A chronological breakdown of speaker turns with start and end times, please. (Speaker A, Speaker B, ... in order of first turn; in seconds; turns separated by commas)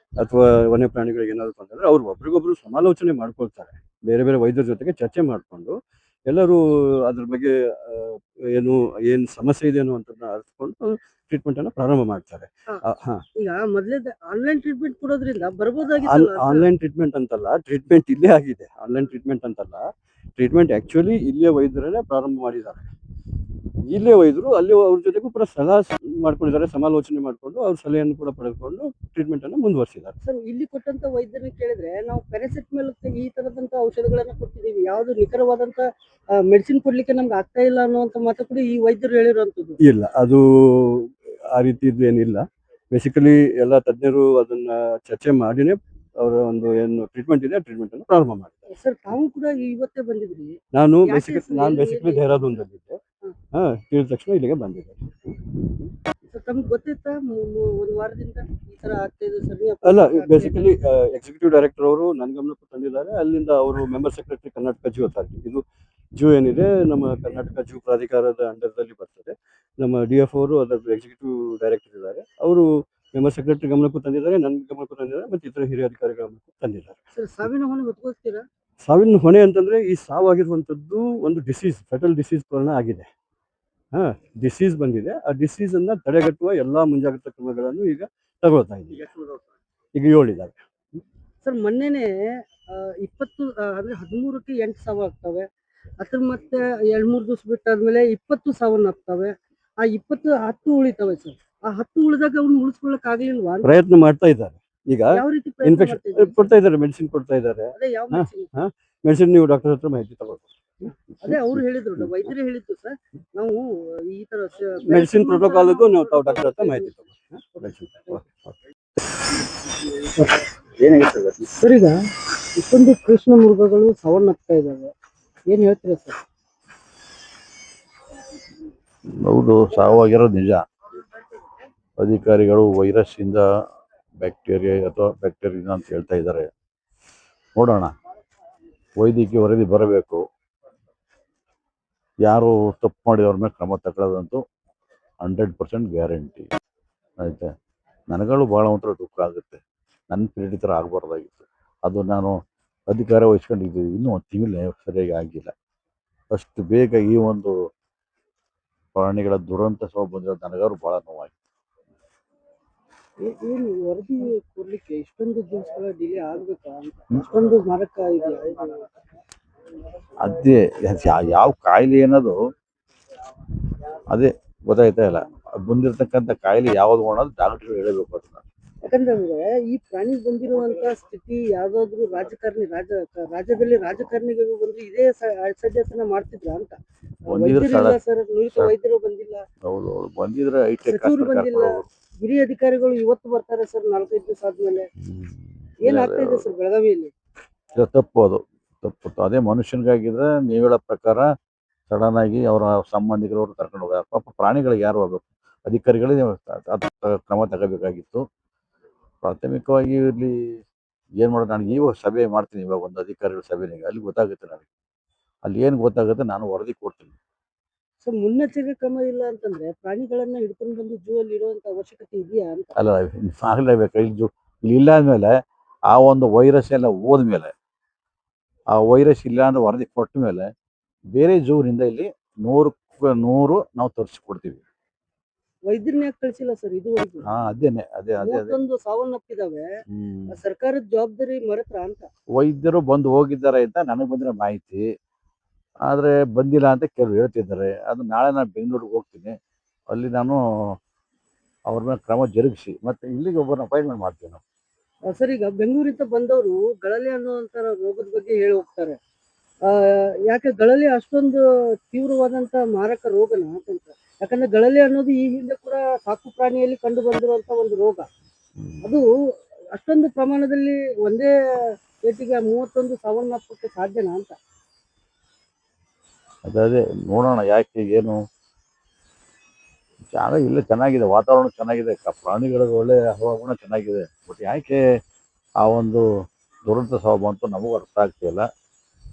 Speaker A: 0.2-5.7, Speaker A: 6.3-6.6, Speaker A: 7.1-12.5, Speaker B: 13.4-16.7, Speaker A: 16.8-19.8, Speaker A: 20.4-22.8, Speaker A: 23.9-30.1, Speaker B: 30.2-39.8, Speaker A: 39.9-40.4, Speaker A: 41.7-42.4, Speaker A: 43.0-48.5, Speaker B: 48.7-52.5, Speaker A: 50.8-53.0, Speaker A: 53.9-55.0, Speaker B: 56.3-60.7, Speaker A: 61.0-65.6, Speaker A: 66.2-69.3, Speaker A: 69.8-72.7, Speaker A: 73.2-77.0, Speaker B: 77.2-78.5, Speaker A: 78.9-83.0, Speaker A: 84.3-89.0, Speaker A: 90.0-90.5, Speaker B: 91.4-92.1, Speaker B: 92.7-95.5, Speaker B: 96.0-103.8, Speaker A: 103.7-105.1, Speaker B: 105.1-106.5, Speaker A: 106.5-107.7, Speaker B: 107.8-108.5, Speaker A: 109.1-110.9, Speaker B: 111.2-116.9, Speaker A: 115.3-118.5, Speaker B: 120.2-120.4, Speaker C: 120.8-121.4, Speaker B: 121.5-122.0, Speaker B: 122.6-124.9, Speaker B: 125.5-126.2, Speaker C: 129.2-130.6, Speaker C: 132.0-133.4, Speaker C: 134.2-136.5, Speaker C: 137.6-137.9, Speaker C: 139.0-140.2, Speaker C: 142.2-144.4, Speaker C: 145.2-146.5, Speaker C: 147.2-147.5, Speaker C: 148.1-152.4, Speaker C: 152.9-155.5, Speaker C: 156.3-157.6, Speaker C: 158.9-161.3, Speaker B: 163.2-168.8, Speaker C: 170.2-172.4, Speaker C: 174.1-178.4, Speaker B: 178.8-189.4, Speaker C: 187.3-188.0, Speaker C: 189.7-191.8, Speaker B: 190.9-194.9, Speaker B: 195.8-197.1, Speaker C: 195.8-196.4, Speaker C: 197.7-201.3, Speaker C: 201.9-208.2, Speaker C: 209.2-210.4, Speaker C: 211.2-214.7, Speaker C: 215.4-217.1, Speaker B: 218.0-222.8, Speaker C: 222.8-225.3, Speaker C: 225.9-227.5, Speaker C: 228.7-230.4, Speaker C: 231.2-234.6, Speaker B: 235.7-237.3, Speaker C: 237.3-238.6, Speaker B: 238.2-239.7, Speaker C: 239.9-240.3, Speaker B: 240.3-242.1, Speaker C: 242.4-244.8, Speaker C: 245.9-249.3, Speaker C: 249.9-250.4, Speaker C: 251.7-254.4, Speaker B: 255.1-259.0, Speaker B: 260.3-268.1, Speaker C: 268.6-268.9, Speaker B: 268.8-269.1, Speaker B: 269.7-271.3, Speaker B: 272.0-274.4, Speaker C: 276.4-278.2, Speaker C: 280.1-284.8, Speaker C: 285.6-286.0, Speaker C: 286.7-288.4